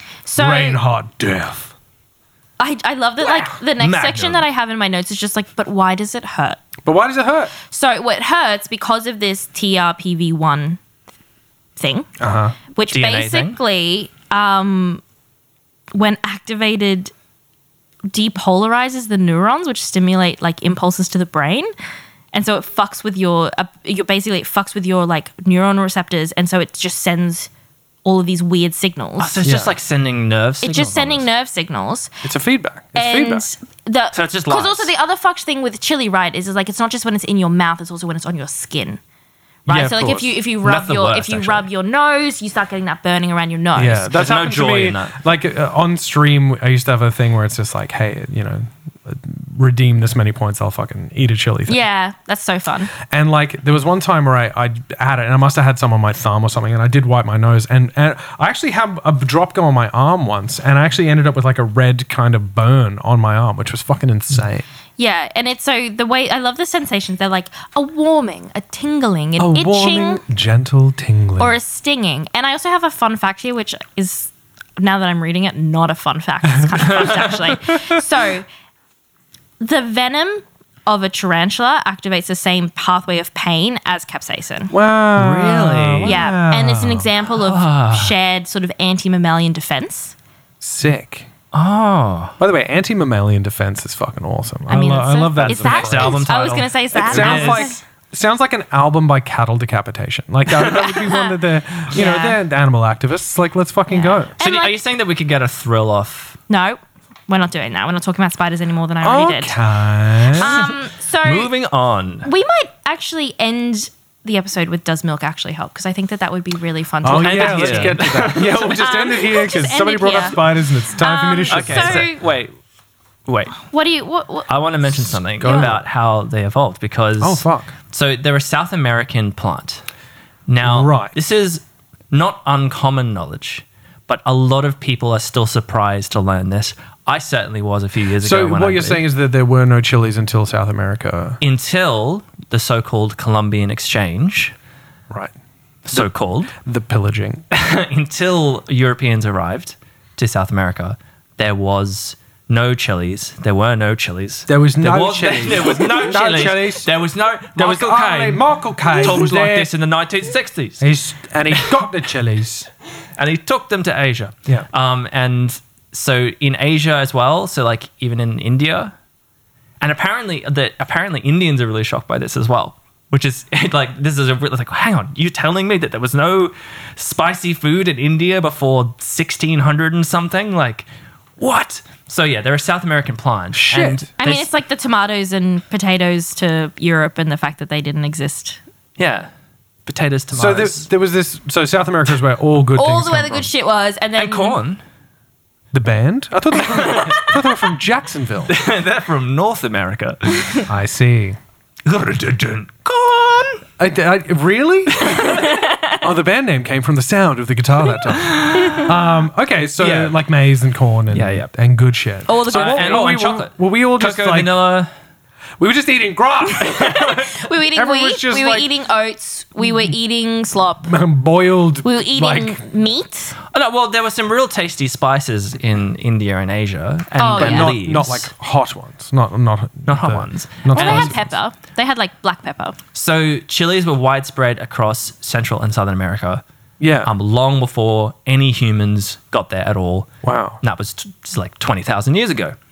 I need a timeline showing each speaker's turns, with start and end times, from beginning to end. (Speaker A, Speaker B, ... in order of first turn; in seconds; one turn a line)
Speaker A: 0.2-0.8
Speaker B: 0.3-1.7
Speaker A: 2.6-6.6
Speaker C: 3.8-4.4
Speaker B: 6.8-7.5
Speaker A: 7.7-10.8
Speaker A: 11.8-12.1
Speaker B: 12.2-12.5
Speaker A: 12.7-15.0
Speaker C: 12.9-13.6
Speaker A: 15.9-17.1
Speaker A: 18.1-21.7
Speaker A: 22.3-27.5
Speaker A: 28.0-29.4
Speaker C: 29.2-31.2
Speaker B: 29.4-29.7
Speaker A: 30.6-32.1
Speaker B: 32.2-33.5
Speaker A: 32.9-39.0
Speaker C: 34.1-34.9
Speaker A: 39.6-44.1
Speaker B: 39.7-40.3
Speaker C: 40.6-41.7
Speaker B: 43.8-51.8
Speaker C: 44.1-45.1
Speaker A: 51.7-52.9
Speaker B: 53.0-64.6
Speaker A: 65.0-70.2
Speaker B: 69.4-71.5
Speaker A: 71.4-78.5
Speaker A: 79.6-84.7
Speaker B: 84.7-87.1
Speaker C: 85.2-86.2
Speaker A: 86.0-90.1
Speaker C: 87.4-88.1
Speaker B: 90.6-91.3
Speaker C: 91.5-92.3
Speaker B: 92.4-96.2
Speaker A: 94.7-97.8
Speaker C: 95.4-97.7
Speaker B: 96.9-104.3
Speaker A: 100.7-101.3
Speaker A: 101.9-102.4
Speaker A: 103.9-104.8
Speaker C: 104.4-106.4
Speaker A: 106.5-109.6
Speaker B: 109.0-110.6
Speaker A: 110.3-111.5
Speaker C: 110.4-112.3
Speaker A: 112.2-122.2
Speaker B: 117.0-122.1
Speaker C: 117.1-118.8
Speaker C: 121.5-122.5
Speaker C: 123.2-123.6
Speaker A: 123.6-124.5
Speaker C: 124.5-129.8
Speaker B: 125.4-125.8
Speaker B: 127.2-127.7
Speaker C: 130.5-139.0
Speaker B: 130.6-131.1
Speaker B: 138.2-141.4
Speaker C: 141.4-144.5
Speaker C: 145.8-146.5
Speaker B: 146.6-147.4
Speaker C: 147.5-160.8
Speaker B: 154.5-156.9
Speaker B: 157.6-159.7
Speaker B: 160.8-162.7
Speaker C: 163.2-168.9
Speaker C: 169.8-180.9
Speaker C: 181.4-184.5
Speaker B: 183.5-184.1
Speaker A: 184.2-188.6
Speaker C: 189.0-189.3
Speaker C: 189.8-190.9
Speaker B: 190.3-193.5
Speaker A: 192.8-194.6
Speaker C: 194.2-194.8
Speaker B: 195.7-198.5
Speaker C: 196.7-197.2
Speaker C: 198.5-200.7
Speaker B: 200.7-201.4
Speaker C: 201.8-203.6
Speaker B: 203.8-205.3
Speaker C: 205.0-205.6
Speaker A: 205.4-205.9
Speaker B: 205.9-214.5
Speaker C: 208.2-208.9
Speaker C: 209.8-210.1
Speaker C: 211.1-211.5
Speaker A: 212.3-213.1
Speaker C: 212.4-214.9
Speaker B: 215.6-218.7
Speaker A: 216.6-220.9
Speaker B: 220.8-222.6
Speaker A: 221.8-223.3
Speaker C: 223.5-228.3
Speaker A: 227.2-227.7
Speaker B: 227.3-231.2
Speaker C: 229.9-231.2
Speaker A: 230.7-232.8
Speaker C: 232.9-236.4
Speaker B: 236.8-237.1
Speaker C: 237.0-240.1
Speaker B: 240.2-240.6
Speaker C: 240.6-242.5